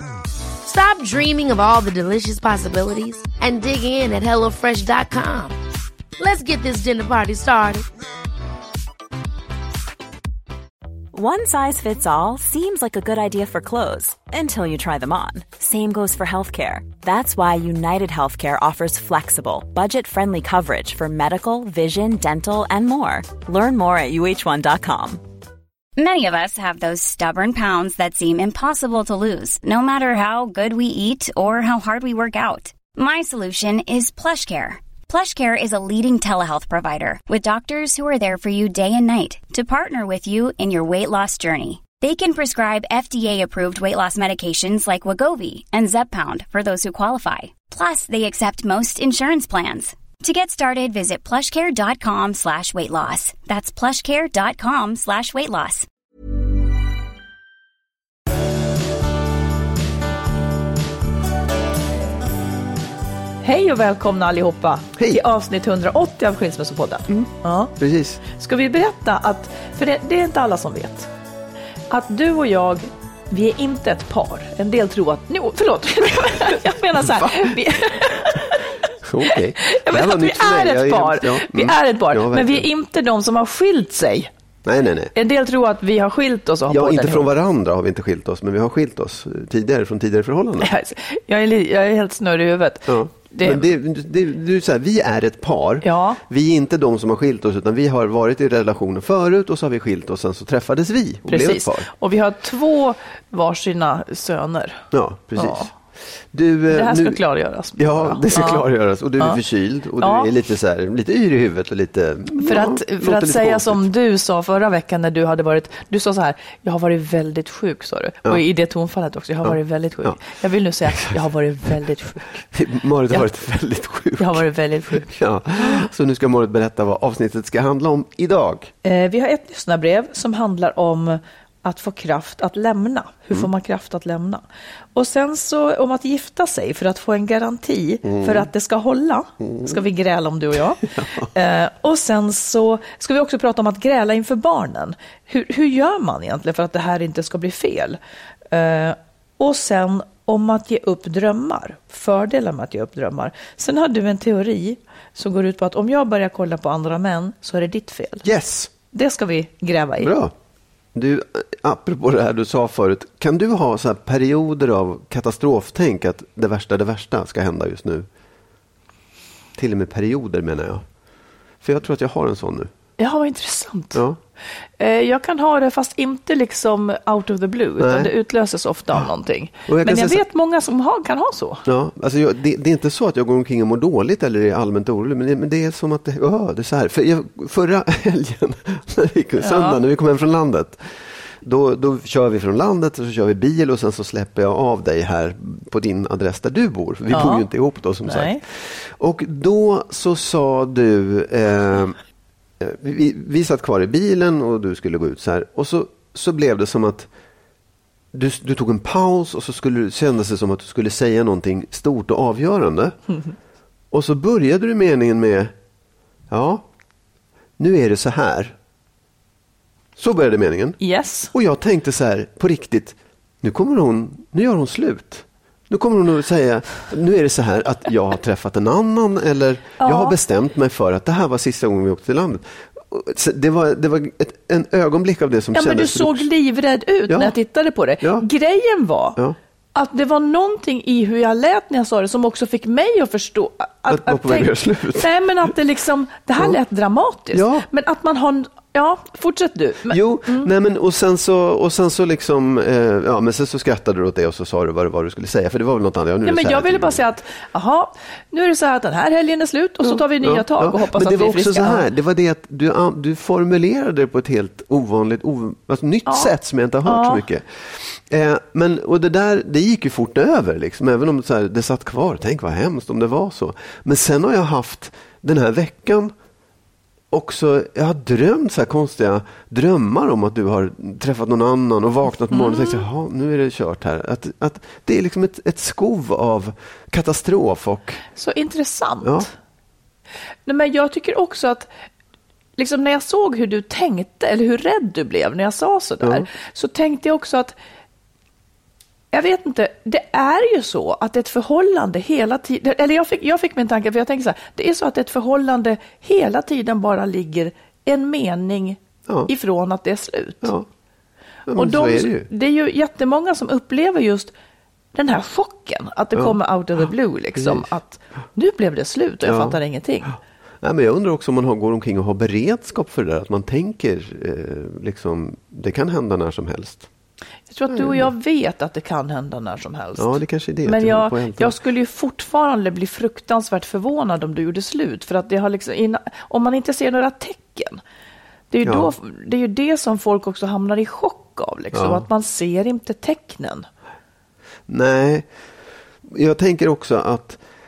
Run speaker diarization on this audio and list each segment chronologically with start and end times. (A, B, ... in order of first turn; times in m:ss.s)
0:00.6-0:05.6 A
0:06.2-0:07.8 A
0:11.1-0:25.2 B
0:26.0-0:55.9 C
1:03.4-1:11.1 D
1:05.0-1:05.2 E
1:07.1-1:08.2 E
1:11.9-1:18.7 D
1:17.1-1:17.6 E
1:19.0-1:22.7 E
1:19.3-1:24.3 D
1:24.6-1:25.1 E
1:25.2-1:27.3 D
1:26.7-1:30.7 E
1:30.6-1:33.7 D
1:32.9-1:41.9 E
1:35.8-1:36.2 D
1:41.3-1:45.7 D
1:44.9-1:45.8 E
1:46.3-1:47.2 E
1:46.7-1:48.6 D
1:47.8-1:53.9 E
1:50.0-1:50.3 D
1:52.4-2:02.5 D
1:59.4-2:00.2 E
2:00.9-2:01.2 E
2:02.5-2:08.7 E
2:04.2-2:05.8 D
2:08.8-2:14.4 D
2:15.0-2:28.0 D
2:18.0-2:18.5 E
2:19.4-2:19.8 E
2:20.8-2:21.3 E
2:28.5-2:38.3 D
2:38.2-2:38.7 E
2:38.9-2:40.1 D
2:40.0-2:40.3 E
2:40.9-2:48.1 E
2:49.6-2:50.8 E
2:51.6-2:52.7 E
2:53.0-2:54.0 D
2:53.9-2:54.2 E
2:54.8-3:01.6 D
2:57.8-2:58.1 E
2:59.7-3:00.2 E
3:01.7-3:22.0 E
3:09.4-3:09.8 D
3:17.1-3:17.5 D
3:18.0-3:18.4 D
3:22.6-3:27.1 E
3:28.1-3:33.0 E
3:33.9-3:35.5 E
3:36.3-3:36.6 E
3:37.6-3:38.6 E
3:40.0-3:40.8 E
3:40.8-3:41.3 D
3:41.3-3:56.3 E
3:49.8-3:50.2 D
3:55.5-3:59.2 D
3:57.1-3:57.4 E
3:58.0-3:58.3 E
3:59.8-4:10.5 D
4:03.9-4:05.1 E
4:07.3-4:07.7 E
4:09.9-4:17.0 E
4:16.2-4:21.9 D
4:19.8-4:36.1 E
4:26.1-4:27.2 D
4:37.1-4:48.0 E
4:42.3-4:42.8 D
4:48.2-4:49.3 D
4:49.0-4:49.3 E
4:50.5-4:51.7 D
4:52.6-4:57.6 D
4:56.0-4:56.3 E
4:59.1-5:10.5 D
5:10.4-5:10.7 E
5:11.5-5:12.3 E
5:11.5-5:14.3 D
5:15.0-5:20.1 D
5:17.4-5:17.7 E
5:19.2-5:26.9 E
5:27.5-5:37.8 D
5:27.7-5:28.1 E
5:30.0-5:31.6 E
5:38.5-5:43.7 D
5:38.6-5:38.9 E
5:41.7-5:42.0 E
5:44.7-5:45.3 E
5:46.1-5:47.4 E